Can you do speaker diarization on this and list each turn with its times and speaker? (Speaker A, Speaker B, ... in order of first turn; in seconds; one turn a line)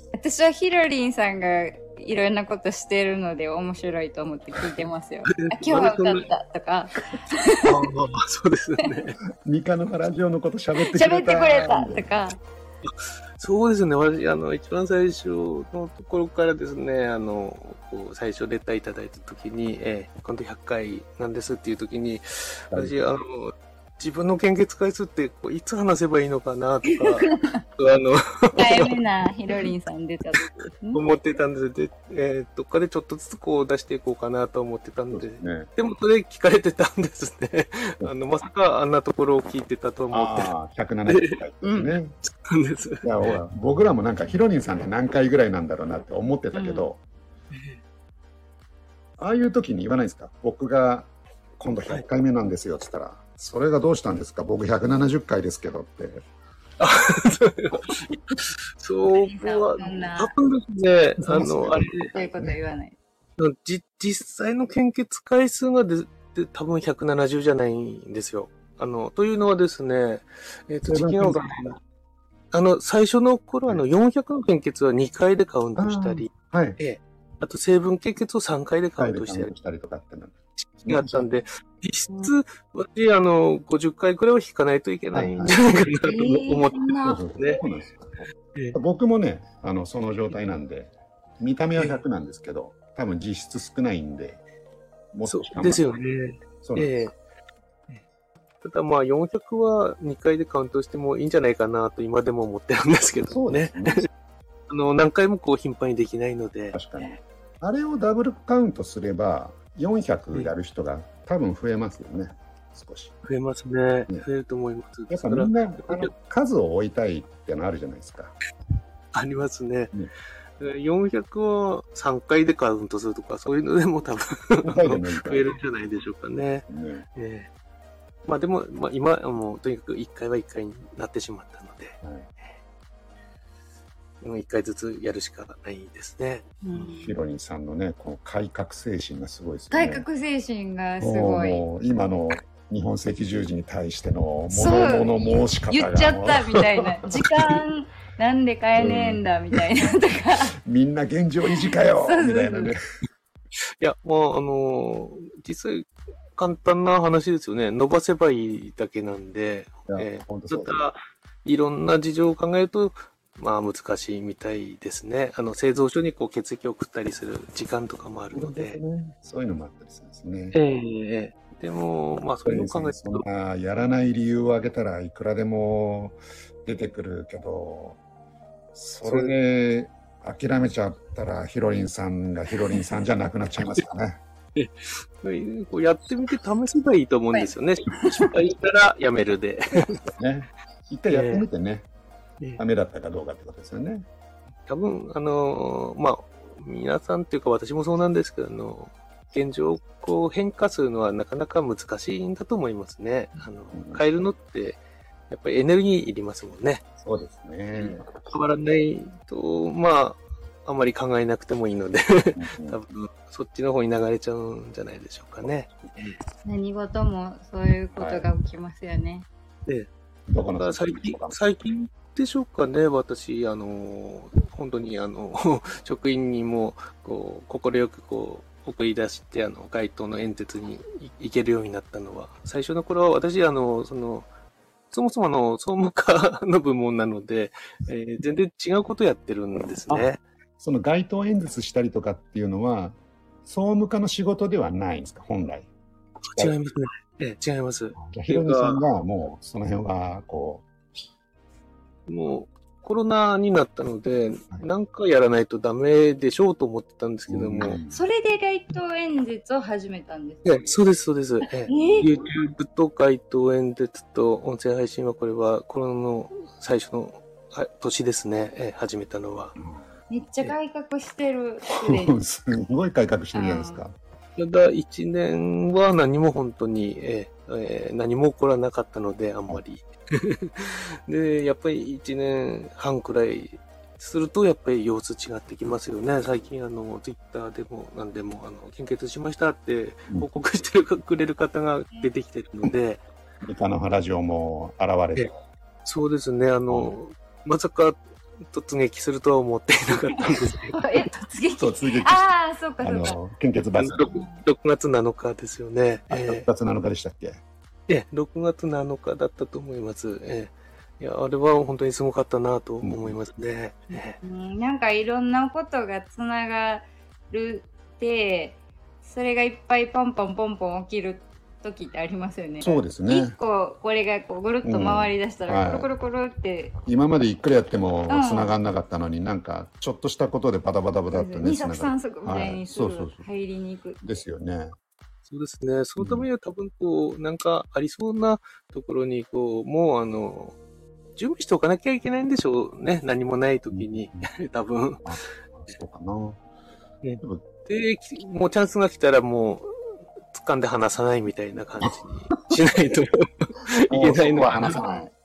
Speaker A: 0.1-7.8
Speaker B: 4.6-6.3
Speaker B: 7.6-9.2
Speaker C: 9.4-12.1
Speaker A: 10.8-12.4
Speaker B: 12.8-29.0
Speaker C: 22.7-23.1
Speaker A: 26.9-27.6
Speaker A: 28.5-31.1
Speaker B: 30.9-40.5
Speaker C: 35.1-35.7
Speaker C: 40.1-42.2
Speaker B: 41.1-43.4
Speaker C: 43.0-47.0
Speaker A: 46.5-46.9
Speaker B: 47.5-47.8
Speaker C: 49.2-56.2
Speaker B: 56.8-62.1
Speaker A: 59.1-60.3
Speaker C: 61.2-62.6
Speaker A: 62.1-63.0
Speaker B: 63.4-71.8
Speaker C: 70.8-71.8
Speaker B: 72.5-79.5
Speaker C: 75.8-76.8
Speaker C: 79.0-81.3
Speaker B: 80.6-87.6
Speaker A: 82.1-82.3
Speaker C: 85.1-85.6
Speaker A: 86.0-87.6
Speaker C: 87.0-94.4
Speaker B: 91.8-92.0
Speaker C: 95.1-95.9
Speaker B: 95.3-97.1
Speaker C: 96.6-97.0
Speaker B: 98.6-104.0
Speaker C: 103.3-104.1
Speaker B: 104.7-106.8
Speaker C: 106.7-113.1
Speaker B: 113.2-116.1
Speaker C: 115.1-118.4
Speaker B: 119.1-119.9
Speaker B: 120.6-126.7
Speaker C: 124.6-125.5
Speaker C: 126.7-127.1
Speaker B: 127.2-127.5
Speaker B: 128.3-132.0
Speaker C: 132.0-132.3
Speaker B: 134.2-137.0
Speaker A: 136.6-137.2
Speaker C: 137.0-140.1
Speaker A: 139.7-141.7
Speaker C: 141.0-147.2
Speaker A: 144.5-150.5
Speaker C: 148.8-149.7
Speaker C: 150.7-152.8
Speaker A: 151.8-152.7
Speaker B: 153.8-168.8
Speaker C: 159.9-160.9
Speaker C: 168.3-170.6
Speaker B: 170.5-173.2
Speaker C: 172.4-178.0
Speaker C: 178.7-184.2
Speaker B: 179.0-179.4
Speaker B: 185.2-190.0
Speaker A: 187.3-188.3
Speaker C: 190.1-191.9
Speaker B: 191.1-191.5
Speaker C: 192.6-194.1
Speaker B: 194.7-206.8
Speaker C: 203.7-204.1
Speaker C: 207.0-208.1
Speaker B: 207.7-216.2
Speaker C: 212.3-212.8
Speaker A: 216.4-219.3
Speaker C: 218.0-218.3
Speaker C: 220.3-221.4
Speaker B: 220.6-234.3
Speaker B: 234.9-240.2
Speaker C: 239.9-245.7
Speaker B: 246.3-248.8
Speaker C: 248.0-250.7
Speaker B: 252.1-257.8
Speaker C: 257.3-258.1
Speaker A: 257.9-260.8
Speaker B: 260.4-269.6
Speaker A: 261.7-262.2
Speaker A: 270.1-272.2
Speaker C: 271.8-274.0
Speaker A: 273.3-273.8
Speaker B: 274.4-293.0
Speaker C: 293.4-295.3
Speaker B: 295.9-298.0
Speaker C: 296.7-296.9
Speaker B: 298.5-300.8
Speaker A: 300.2-303.2
Speaker C: 301.6-304.2
Speaker B: 303.8-306.5
Speaker A: 304.1-304.4
Speaker C: 306.1-307.4
Speaker B: 307.9-314.2
Speaker C: 312.8-313.2
Speaker A: 314.2-326.8
Speaker C: 322.6-323.4
Speaker C: 324.6-325.9
Speaker C: 326.9-333.3
Speaker A: 328.1-328.6
Speaker A: 331.1-334.1
Speaker C: 334.0-334.8
Speaker B: 335.3-340.6
Speaker C: 336.0-336.3
Speaker B: 341.2-345.1
Speaker C: 343.7-344.3
Speaker C: 345.1-346.4
Speaker B: 347.0-349.7
Speaker C: 347.2-347.5
Speaker B: 350.3-354.8
Speaker C: 351.9-352.6
Speaker C: 353.9-355.1
Speaker A: 354.7-355.1